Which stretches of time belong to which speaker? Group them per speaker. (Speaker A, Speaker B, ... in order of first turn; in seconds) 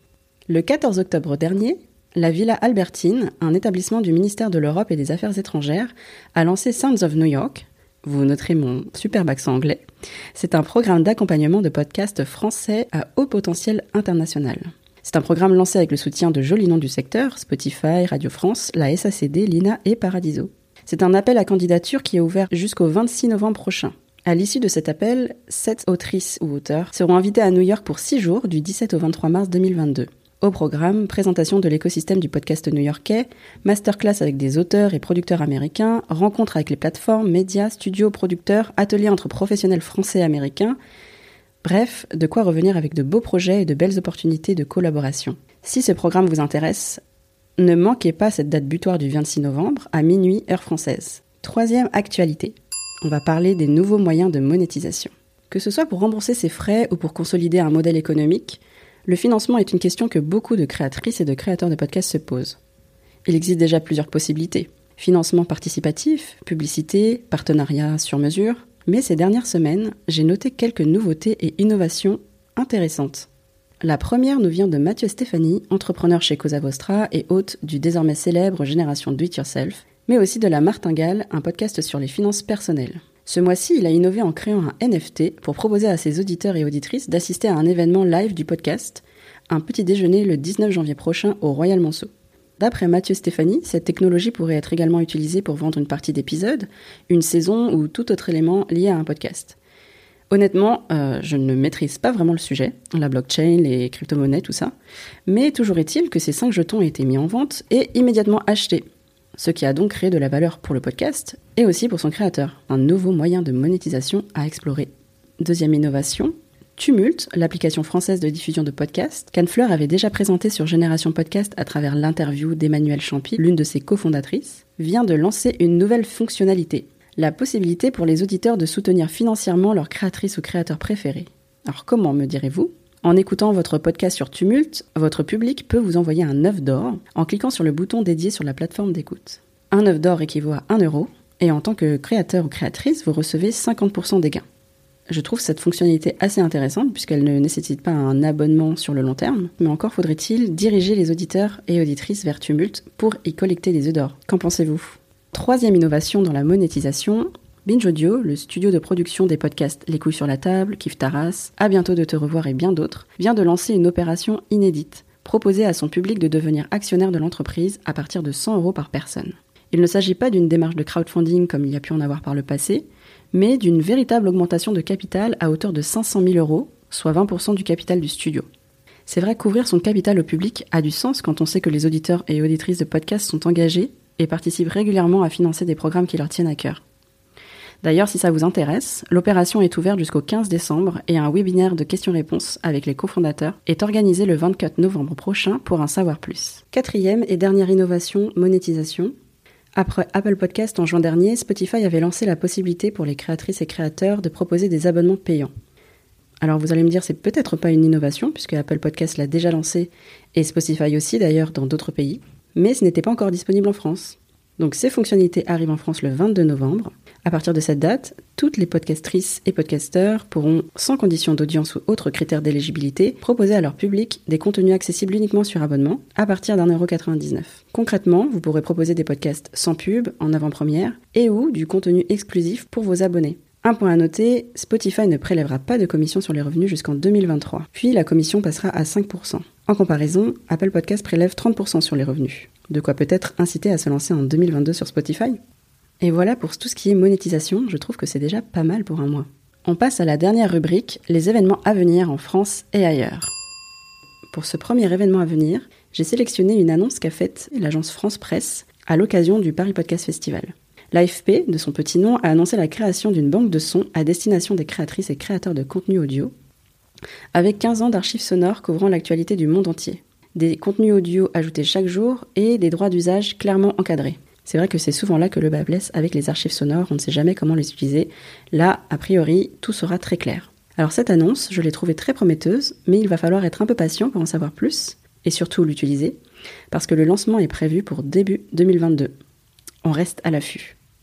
Speaker A: 0.5-40.8, 41.6-47.0, 47.6-62.6, 63.3-73.3, 73.8-99.6, 100.3-104.7, 105.3-144.4, 145.1-178.5, 179.1-186.8, 187.8-199.1, 199.8-205.5, 206.4-245.4, 246.0-253.3, 254.3-266.3, 267.3-286.2, 286.7-289.1, 289.8-290.8